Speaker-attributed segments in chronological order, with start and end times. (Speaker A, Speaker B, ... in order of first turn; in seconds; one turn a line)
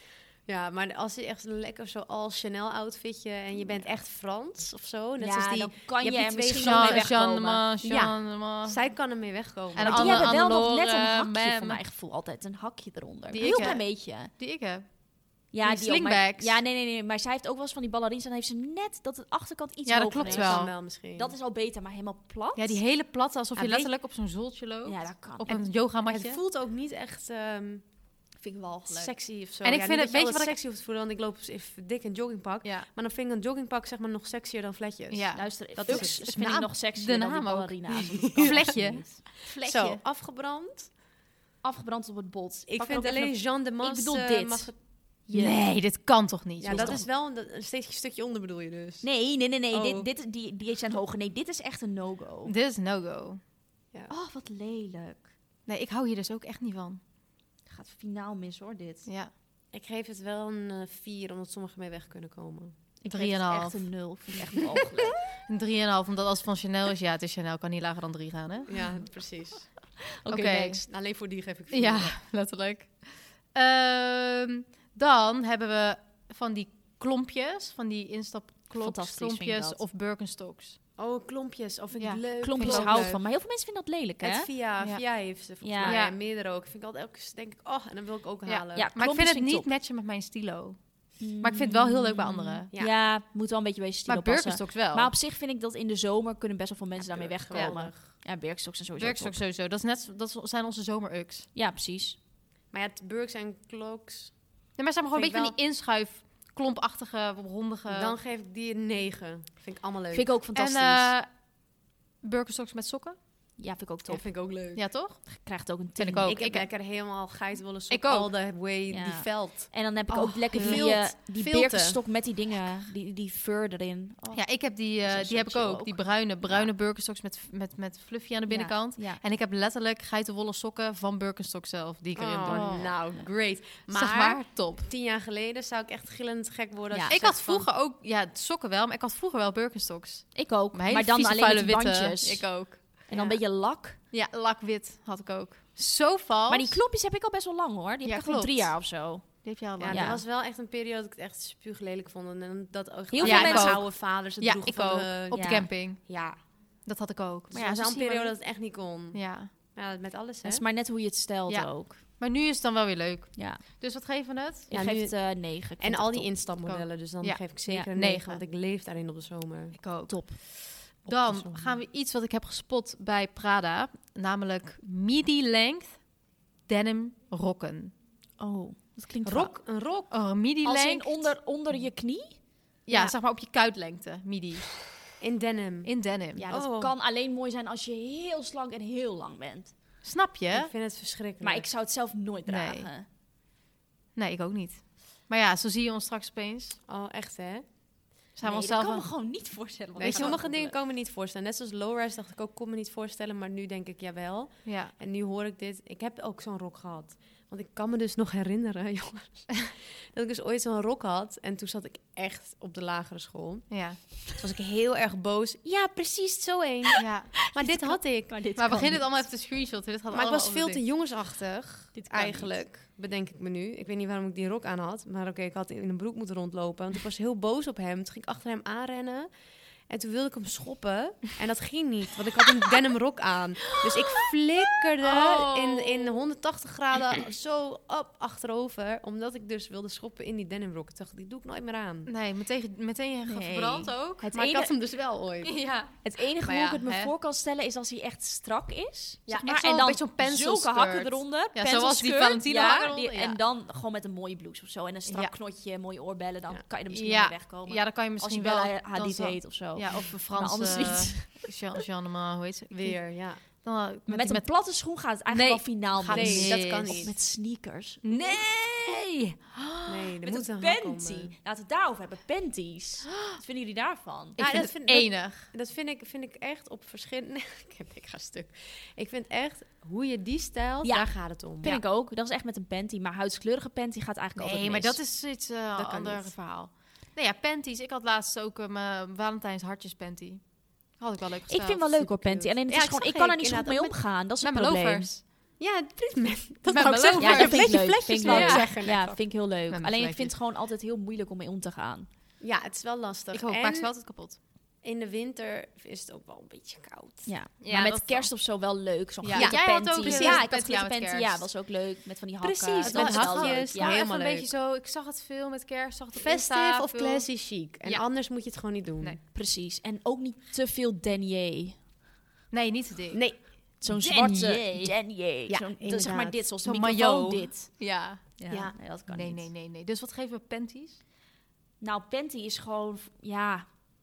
Speaker A: 0.5-7.2
Speaker B: 5.2-7.7
Speaker C: 6.6-8.8
Speaker A: 7.8-10.4
Speaker C: 9.7-11.8
Speaker B: 9.8-14.3
Speaker C: 13.3-14.9
Speaker A: 13.4-13.7
Speaker B: 15.5-22.8
Speaker C: 15.6-16.6
Speaker C: 19.9-20.7
Speaker A: 20.1-21.4
Speaker C: 22.6-26.4
Speaker A: 23.6-23.9
Speaker B: 24.9-25.6
Speaker A: 25.5-27.8
Speaker B: 28.4-29.1
Speaker A: 28.9-36.3
Speaker C: 29.6-30.5
Speaker C: 35.1-39.3
Speaker B: 35.3-40.0
Speaker A: 38.4-38.7
Speaker A: 39.6-40.9
Speaker B: 41.6-45.6
Speaker A: 42.7-44.7
Speaker C: 45.3-47.0
Speaker A: 46.6-49.1
Speaker B: 46.7-47.0
Speaker B: 49.0-52.5
Speaker A: 49.7-50.1
Speaker C: 52.5-53.4
Speaker B: 54.1-55.3
Speaker C: 55.7-57.0
Speaker B: 57.7-59.1
Speaker C: 59.1-59.3
Speaker A: 59.7-62.8
Speaker B: 63.0-65.2
Speaker C: 63.1-63.9
Speaker C: 65.5-68.8
Speaker A: 68.7-69.7
Speaker B: 70.2-70.8
Speaker C: 70.3-70.8
Speaker A: 70.7-72.2
Speaker C: 71.7-80.8
Speaker B: 78.8-79.8
Speaker A: 81.0-83.2
Speaker C: 82.0-83.2
Speaker B: 82.4-84.5
Speaker A: 84.2-88.9
Speaker B: 85.6-86.0
Speaker C: 85.8-86.1
Speaker C: 88.5-92.7
Speaker B: 88.8-89.7
Speaker B: 91.2-99.4
Speaker C: 94.1-95.1
Speaker A: 97.0-98.0
Speaker C: 99.0-101.5
Speaker B: 101.5-102.2
Speaker A: 102.7-104.4
Speaker C: 104.8-108.2
Speaker A: 105.1-105.6
Speaker A: 107.9-110.3
Speaker B: 110.1-111.1
Speaker C: 110.5-111.3
Speaker C: 112.2-113.2
Speaker B: 113.6-114.4
Speaker A: 114.1-114.8
Speaker C: 114.8-115.2
Speaker B: 115.3-116.3
Speaker C: 116.0-116.7
Speaker A: 116.2-122.0
Speaker C: 117.9-118.3
Speaker B: 118.9-126.7
Speaker C: 120.5-120.9
Speaker C: 124.3-133.1
Speaker B: 128.5-129.2
Speaker A: 132.2-137.7
Speaker B: 132.4-132.9
Speaker C: 133.9-134.9
Speaker C: 137.1-143.0
Speaker B: 140.3-144.0
Speaker A: 143.1-143.4
Speaker C: 144.1-146.8
Speaker B: 146.5-150.2
Speaker C: 148.1-150.2
Speaker A: 149.8-156.4
Speaker B: 153.1-153.9
Speaker C: 153.2-156.1
Speaker B: 155.3-155.7
Speaker C: 156.8-158.3
Speaker A: 157.5-160.7
Speaker C: 159.1-159.5
Speaker B: 160.4-162.0
Speaker C: 161.5-164.7
Speaker B: 163.4-163.6
Speaker B: 164.7-166.4
Speaker A: 164.7-169.8
Speaker C: 166.6-168.4
Speaker C: 169.7-176.0
Speaker B: 170.1-170.4
Speaker A: 171.1-171.8
Speaker C: 176.7-177.9
Speaker B: 178.4-179.5
Speaker A: 179.2-180.1
Speaker C: 180.1-181.3
Speaker B: 180.6-182.4
Speaker C: 182.9-184.9
Speaker A: 185.2-185.9
Speaker C: 185.8-186.4
Speaker B: 186.4-189.7
Speaker A: 186.5-186.9
Speaker C: 190.0-190.7
Speaker A: 190.5-191.7
Speaker B: 191.4-193.1
Speaker C: 192.5-192.9
Speaker C: 194.2-196.8
Speaker A: 196.9-197.7
Speaker C: 198.4-199.1
Speaker B: 198.4-200.8
Speaker A: 200.0-218.6
Speaker C: 200.0-200.4
Speaker C: 204.7-204.9
Speaker C: 213.7-214.0
Speaker C: 217.0-220.8
Speaker B: 218.3-219.3
Speaker A: 220.1-229.3
Speaker B: 221.9-222.6
Speaker A: 229.9-242.1
Speaker C: 235.0-236.2
Speaker C: 242.1-244.3
Speaker B: 243.3-244.7
Speaker A: 244.3-245.6
Speaker C: 245.4-247.1
Speaker B: 246.0-261.5
Speaker C: 249.3-253.4
Speaker C: 255.1-255.3
Speaker C: 256.9-264.5
Speaker A: 262.7-263.4
Speaker B: 264.1-268.4
Speaker C: 265.3-267.1
Speaker A: 266.1-267.1
Speaker C: 268.0-269.4
Speaker B: 269.6-274.4
Speaker A: 269.9-271.3
Speaker C: 274.4-275.5
Speaker A: 274.4-281.8
Speaker B: 280.8-285.0
Speaker C: 284.4-292.1
Speaker A: 285.8-286.4
Speaker B: 291.5-295.2
Speaker A: 292.0-294.0
Speaker C: 294.4-295.2
Speaker A: 295.6-299.2
Speaker C: 296.7-298.9
Speaker B: 297.1-302.1
Speaker C: 299.7-300.3
Speaker A: 302.4-303.9
Speaker C: 303.3-304.4
Speaker A: 304.8-307.3
Speaker B: 307.2-314.0
Speaker C: 307.6-308.3
Speaker C: 309.2-311.5
Speaker A: 309.3-310.5
Speaker A: 312.4-314.5
Speaker C: 312.8-317.3
Speaker A: 316.1-319.2
Speaker B: 319.3-321.8
Speaker C: 322.5-323.3
Speaker A: 323.1-323.4
Speaker B: 323.8-329.5
Speaker C: 323.9-324.9
Speaker A: 324.0-324.6
Speaker A: 325.5-326.4
Speaker C: 326.6-328.3
Speaker A: 328.5-328.8
Speaker C: 329.1-331.0
Speaker B: 331.8-333.7